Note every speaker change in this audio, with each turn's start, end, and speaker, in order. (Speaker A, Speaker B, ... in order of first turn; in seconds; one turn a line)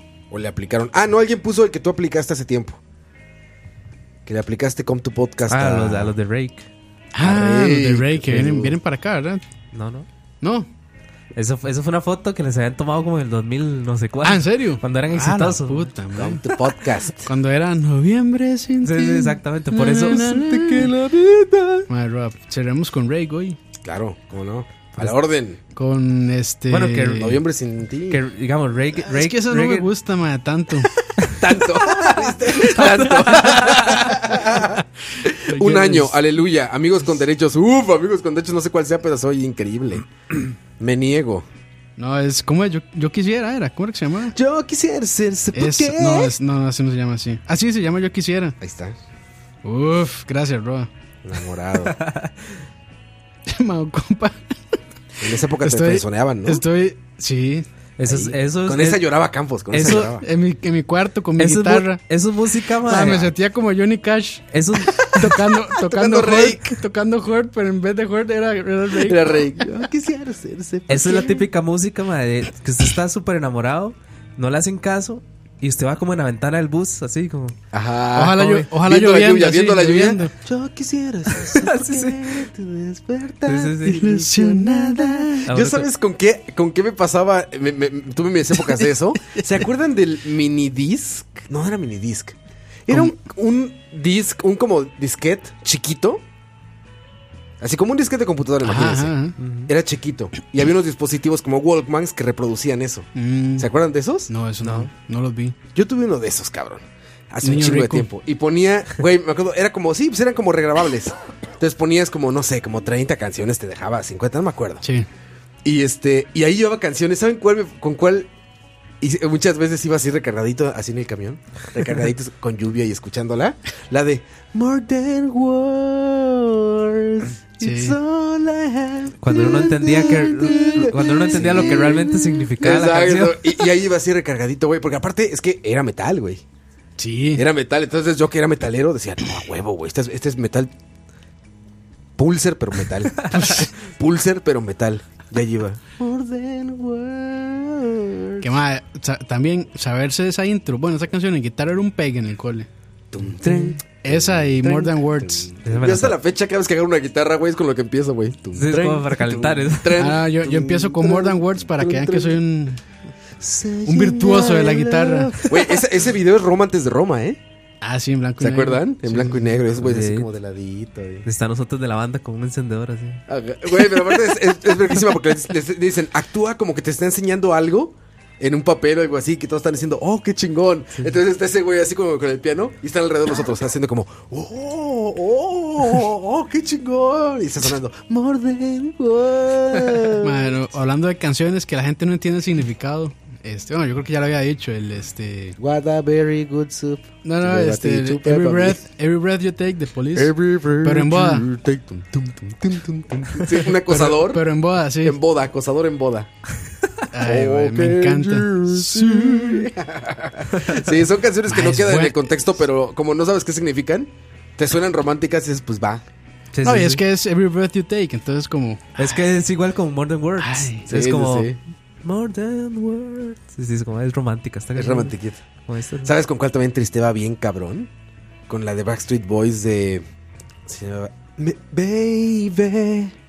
Speaker A: 0.3-2.8
Speaker A: 4.3-6.1
Speaker B: 5.5-6.7
Speaker C: 7.1-9.4
Speaker A: 7.2-8.8
Speaker B: 9.7-10.1
Speaker C: 10.4-10.7
Speaker B: 11.3-15.9
Speaker C: 14.2-16.5
Speaker A: 16.1-17.3
Speaker C: 17.3-20.9
Speaker B: 18.8-20.4
Speaker A: 20.0-21.9
Speaker C: 21.9-23.6
Speaker A: 23.8-25.6
Speaker C: 25.8-27.4
Speaker B: 26.7-27.3
Speaker A: 27.1-28.2
Speaker B: 28.1-29.9
Speaker C: 29.1-30.9
Speaker A: 31.2-41.5
Speaker C: 32.6-34.8
Speaker B: 32.6-34.0
Speaker C: 35.5-36.1
Speaker C: 42.0-44.4
Speaker A: 44.3-46.3
Speaker C: 45.5-48.6
Speaker A: 48.6-49.0
Speaker C: 49.6-50.9
Speaker A: 51.2-52.0
Speaker B: 51.8-52.3
Speaker C: 53.5-54.4
Speaker A: 55.2-56.6
Speaker C: 55.6-57.7
Speaker B: 58.0-59.1
Speaker A: 58.1-60.2
Speaker B: 59.7-60.1
Speaker C: 59.9-62.0
Speaker B: 61.4-63.3
Speaker C: 62.9-69.4
Speaker B: 64.5-65.3
Speaker A: 65.7-66.8
Speaker A: 69.0-71.5
Speaker B: 70.9-77.6
Speaker A: 77.7-92.4
Speaker C: 78.2-80.3
Speaker B: 81.5-82.5
Speaker B: 83.5-84.1
Speaker C: 83.9-85.5
Speaker B: 85.5-85.9
Speaker A: 92.9-96.2
Speaker C: 92.9-93.2
Speaker A: 97.6-99.2
Speaker C: 98.6-99.4
Speaker B: 99.4-99.7
Speaker A: 99.7-104.3
Speaker C: 103.2-103.7
Speaker C: 104.3-105.6
Speaker B: 104.6-104.9
Speaker A: 105.7-114.8
Speaker C: 107.4-108.1
Speaker C: 114.8-115.1
Speaker A: 115.6-118.3
Speaker A: 119.0-136.4
Speaker C: 127.6-128.0
Speaker B: 129.2-133.6
Speaker C: 137.0-137.4
Speaker A: 137.4-140.7
Speaker A: 142.2-148.5
Speaker C: 143.3-143.7
Speaker C: 148.4-152.7
Speaker A: 153.1-162.4
Speaker C: 153.4-155.5
Speaker B: 155.6-156.2
Speaker B: 158.5-160.0
Speaker C: 160.0-162.8
Speaker A: 163.4-167.4
Speaker C: 163.8-165.4
Speaker C: 167.8-169.5
Speaker A: 168.4-171.3
Speaker B: 169.8-170.3
Speaker B: 171.2-173.2
Speaker A: 173.3-190.5
Speaker C: 190.2-195.6
Speaker A: 195.6-198.8
Speaker C: 197.2-201.5
Speaker A: 200.1-204.5
Speaker C: 203.9-205.2
Speaker A: 205.0-206.3
Speaker C: 207.1-209.7
Speaker A: 207.2-216.0
Speaker B: 210.6-210.8
Speaker C: 211.5-212.2
Speaker B: 216.5-217.0
Speaker C: 216.6-219.1
Speaker B: 219.0-221.5
Speaker C: 220.4-220.8
Speaker A: 220.9-221.6
Speaker B: 222.0-225.2
Speaker A: 224.8-225.4
Speaker B: 225.7-226.1
Speaker A: 226.0-227.9
Speaker A: 228.5-230.1
Speaker A: 230.7-233.1